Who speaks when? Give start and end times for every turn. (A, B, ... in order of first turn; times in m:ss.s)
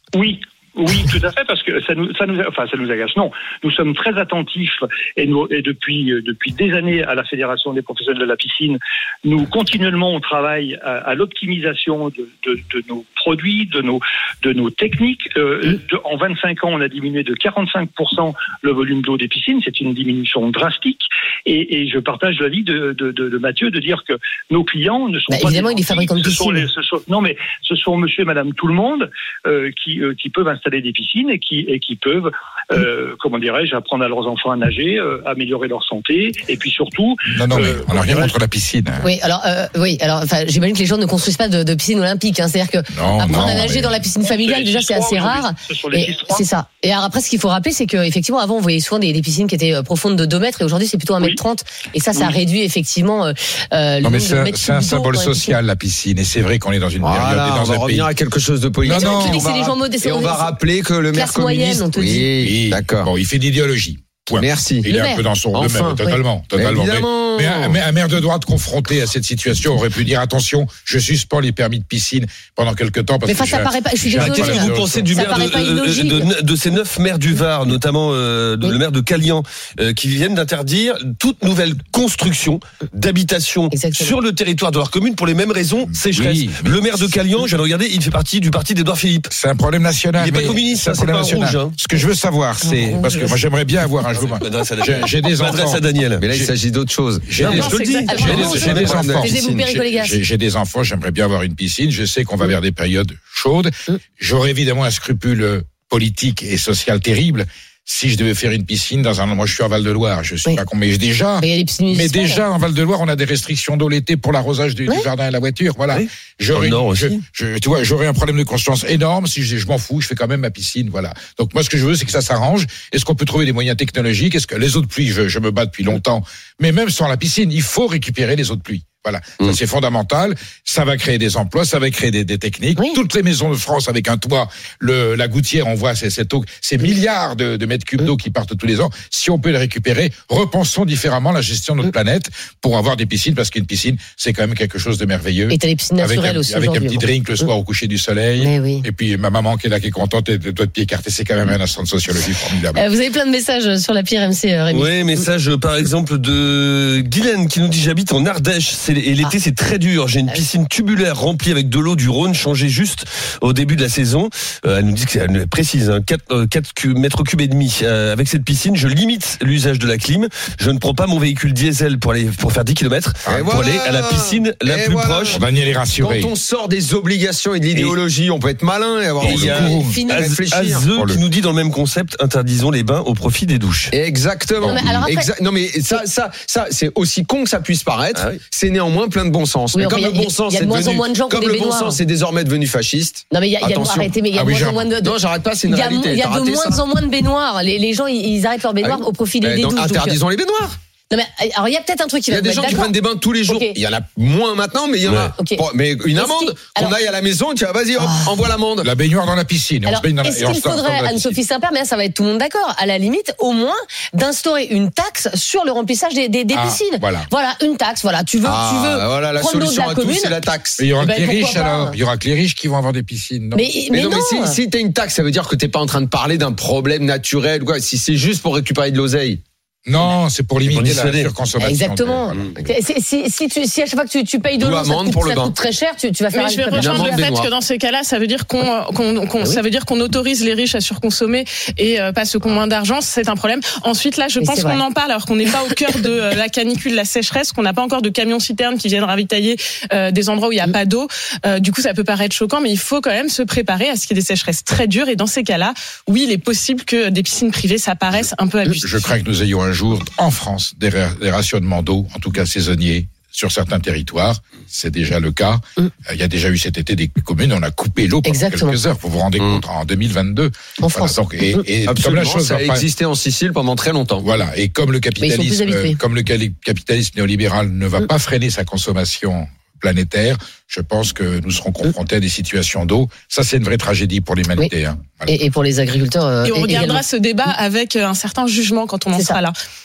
0:00.1-0:38.4 A
0:25.3-0:26.7 B
0:37.3-0:39.1 C
0:39.0-0:55.6 B
0:42.9-0:44.0 C
0:44.2-0:46.5 A
0:54.0-0:58.1 C
0:57.0-1:03.1 D
0:58.8-0:59.4 C
0:58.9-1:00.5 B
1:01.1-1:02.3 B
1:02.4-1:15.2 C
1:04.3-1:04.9 D
1:04.9-1:05.2 B
1:05.5-1:07.8 D
1:13.3-1:16.3 B
1:14.1-1:29.3 E
1:23.7-1:24.2 B
1:25.9-1:27.2 C
1:29.3-1:36.5 C
1:30.2-1:31.8 E
1:32.6-1:33.3 B
1:34.1-1:36.2 E
1:36.2-1:39.7 D
1:37.3-2:32.8 C
1:37.4-1:39.2 E
1:37.4-1:38.8 F
1:38.1-1:40.2 B
1:51.4-1:52.4 B
1:55.9-1:57.2 E
2:25.5-2:27.0 B
2:28.4-2:28.9 B
2:32.7-2:35.2 B
2:34.7-2:55.4 E
2:53.3-2:53.6 C
2:53.3-2:55.4 D
2:55.3-2:56.3 C
2:56.0-3:00.9 D
2:59.2-3:03.9 E
2:59.2-3:00.0 C
2:59.7-3:00.2 B
3:01.0-3:01.2 C
3:03.9-3:14.1 D
3:04.6-3:04.9 C
3:04.6-3:05.3 B
3:08.2-3:08.4 E
3:09.7-3:12.0 B
3:13.3-3:15.2 B
3:14.3-3:14.9 C
3:15.0-3:16.8 D
3:15.7-3:20.2 B
3:18.8-3:20.8 D
3:21.1-3:22.9 B
3:22.3-3:28.9 D
3:23.5-3:23.8 B
3:25.4-3:25.6 B
3:26.2-3:26.9 B
3:28.0-3:28.3 B
3:28.8-3:31.4 C
3:29.9-3:40.4 B
3:36.5-3:37.3 C
3:38.4-3:40.9 D
3:40.8-3:43.6 C
3:41.0-3:42.0 B
3:43.6-3:44.6 B
3:43.9-3:49.4 D
3:49.9-3:52.4 C
3:50.7-3:51.3 E
3:51.6-3:57.3 B
3:52.3-3:52.6 E
3:54.6-3:55.5 D
3:56.3-4:19.0 F
3:56.7-3:57.5 D
4:04.4-4:04.8 B
4:18.8-4:32.8 C
4:28.2-4:28.8 B
4:30.8-4:31.6 B
4:31.9-4:34.2 D
4:34.2-4:45.3 C
4:35.2-4:36.0 B
4:45.3-4:47.0 B
4:46.4-4:49.6 F
4:49.1-4:49.4 B